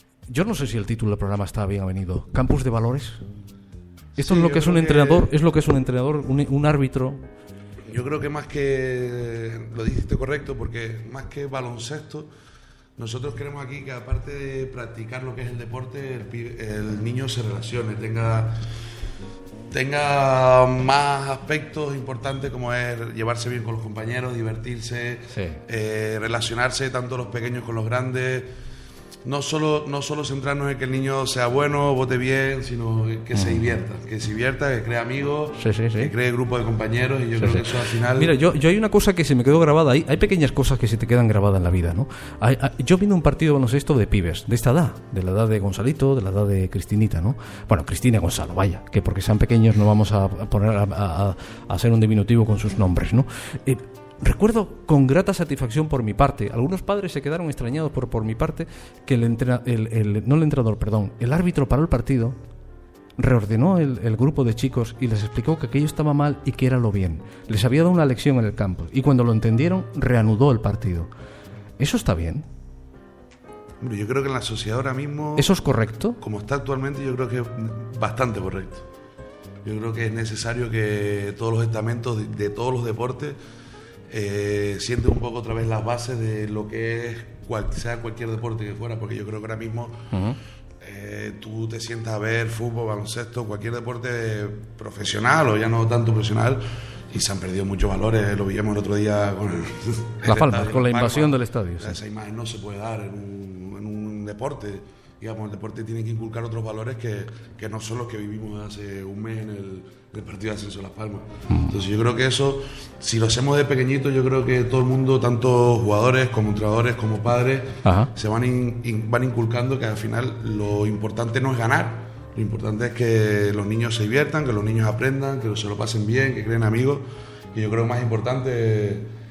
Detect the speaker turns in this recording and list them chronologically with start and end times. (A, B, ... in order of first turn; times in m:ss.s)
0:00.3-0:03.2 A
0:04.2-0:07.2 A
0:04.2-0:05.3 B
0:07.8-0:12.3 B
0:13.0-0:18.6 B
0:19.7-0:28.5 B
0:25.3-0:25.6 A
0:29.2-0:38.3 B
0:33.3-0:33.6 A
0:35.6-0:36.1 A
0:37.4-1:02.4 A
1:03.2-1:11.1 A
1:11.8-1:12.4 A
1:13.8-1:15.5 B
1:15.4-1:16.2 A
1:16.2-1:18.8 B
1:19.6-1:23.4 B
1:24.1-1:30.0 B
1:30.1-1:30.4 A
1:30.8-2:09.1 B
1:40.2-1:42.0 A
1:51.5-1:51.8 A
1:57.8-1:58.1 A